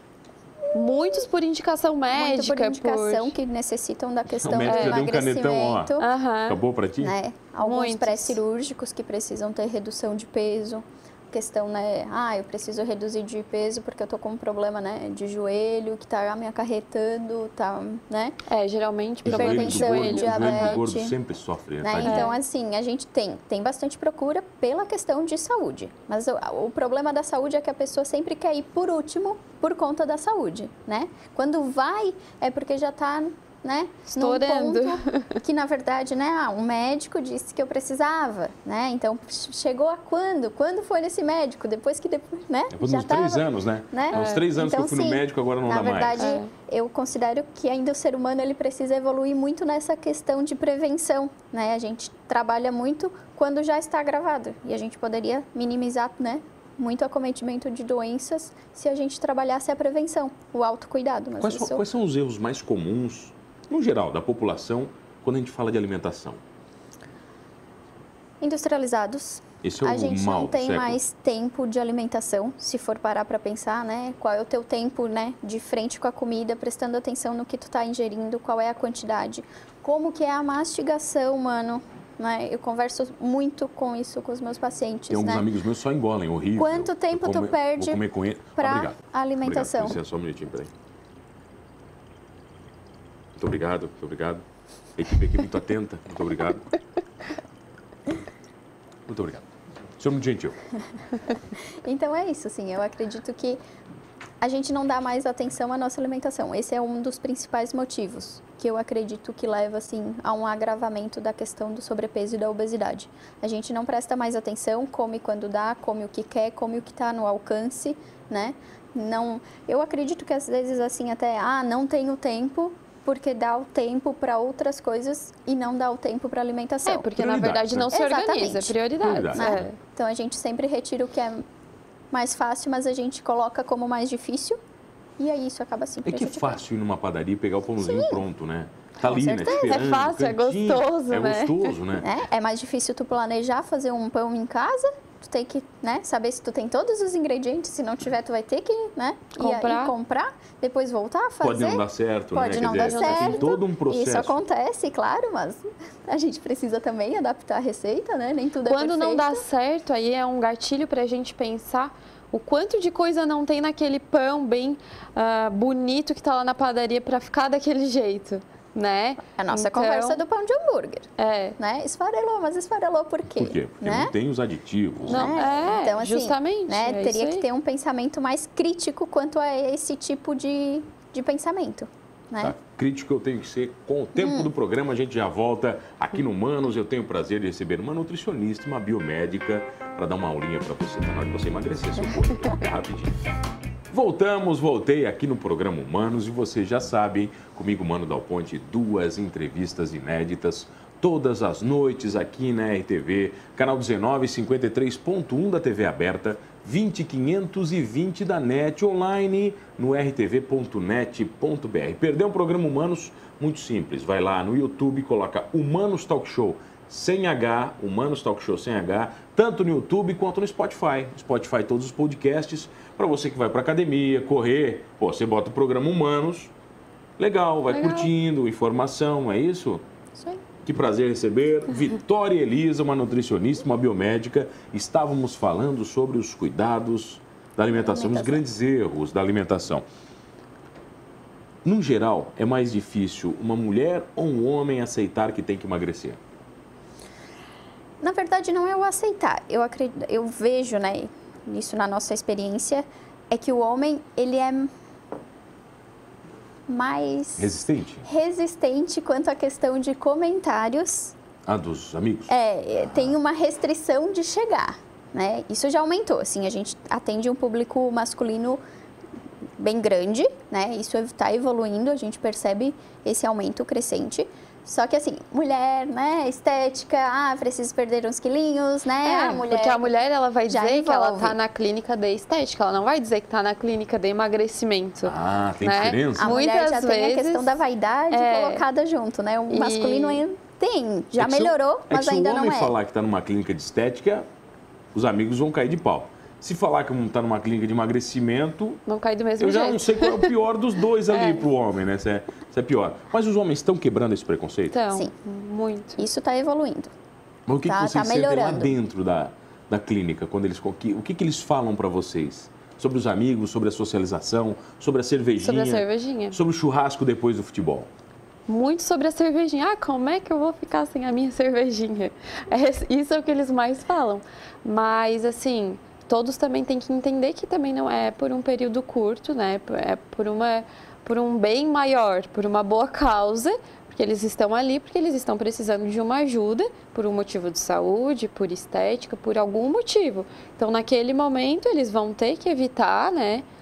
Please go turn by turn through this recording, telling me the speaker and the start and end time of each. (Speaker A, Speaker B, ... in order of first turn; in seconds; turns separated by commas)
Speaker A: 0.7-3.4, Speaker B: 2.1-6.1, Speaker C: 4.3-6.0, Speaker A: 4.6-5.0, Speaker A: 6.0-6.6, Speaker C: 6.5-7.1, Speaker B: 7.0-18.4, Speaker A: 7.6-8.4, Speaker A: 18.5-20.8, Speaker B: 19.2-21.1, Speaker C: 19.2-22.3, Speaker B: 21.8-61.8, Speaker A: 22.0-22.4, Speaker A: 34.1-35.4, Speaker C: 42.7-46.2, Speaker A: 44.1-44.4, Speaker A: 46.2-46.5, Speaker C: 61.4-66.4, Speaker B: 68.4-85.5, Speaker C: 69.6-71.0, Speaker C: 85.1-90.7, Speaker B: 86.6-88.0, Speaker B: 88.6-90.0, Speaker C: 93.4-94.4, Speaker C: 95.0-96.7, Speaker C: 99.1-99.5, Speaker C: 100.0-100.6, Speaker B: 101.8-103.6, Speaker B: 104.4-127.1, Speaker A: 126.8-129.8, Speaker C: 127.1-127.9, Speaker B: 127.9-128.8, Speaker C: 129.0-129.7, Speaker B: 129.3-131.4, Speaker B: 132.1-134.6, Speaker B: 135.2-136.6, Speaker C: 136.0-142.1, Speaker B: 137.8-138.2, Speaker B: 139.0-139.9, Speaker A: 139.5-141.7, Speaker B: 142.0-159.4, Speaker A: 149.4-149.9, Speaker C: 151.4-154.4, Speaker A: 152.8-153.5, Speaker A: 158.6-170.2, Speaker B: 169.3-174.1, Speaker A: 171.2-171.6, Speaker C: 173.3-175.5, Speaker B: 175.1-182.5, Speaker A: 175.1-177.5, Speaker C: 182.4-193.1, Speaker B: 184.2-184.5, Speaker C: 193.9-226.5, Speaker C: 227.2-229.8, Speaker A: 227.7-228.1, Speaker B: 230.1-230.4, Speaker C: 230.6-239.8, Speaker B: 237.7-238.4, Speaker C: 241.6-246.2, Speaker B: 248.0-254.7, Speaker B: 256.7-257.5, Speaker C: 257.4-258.1, Speaker B: 258.0-261.1, Speaker C: 261.5-263.1, Speaker B: 262.3-268.6, Speaker B: 269.6-279.9, Speaker A: 279.0-287.6, Speaker B: 280.5-281.4, Speaker C: 285.0-286.4, Speaker B: 286.2-292.7, Speaker A: 288.1-288.6, Speaker A: 289.5-290.2, Speaker C: 291.1-294.3, Speaker C: 294.9-298.8, Speaker A: 298.9-300.3, Speaker C: 299.4-304.8, Speaker A: 301.1-301.4, Speaker A: 304.7-306.1, Speaker B: 306.0-306.9, Speaker C: 307.5-317.9, Speaker B: 307.6-308.8, Speaker A: 315.4-316.4, Speaker A: 318.5-343.5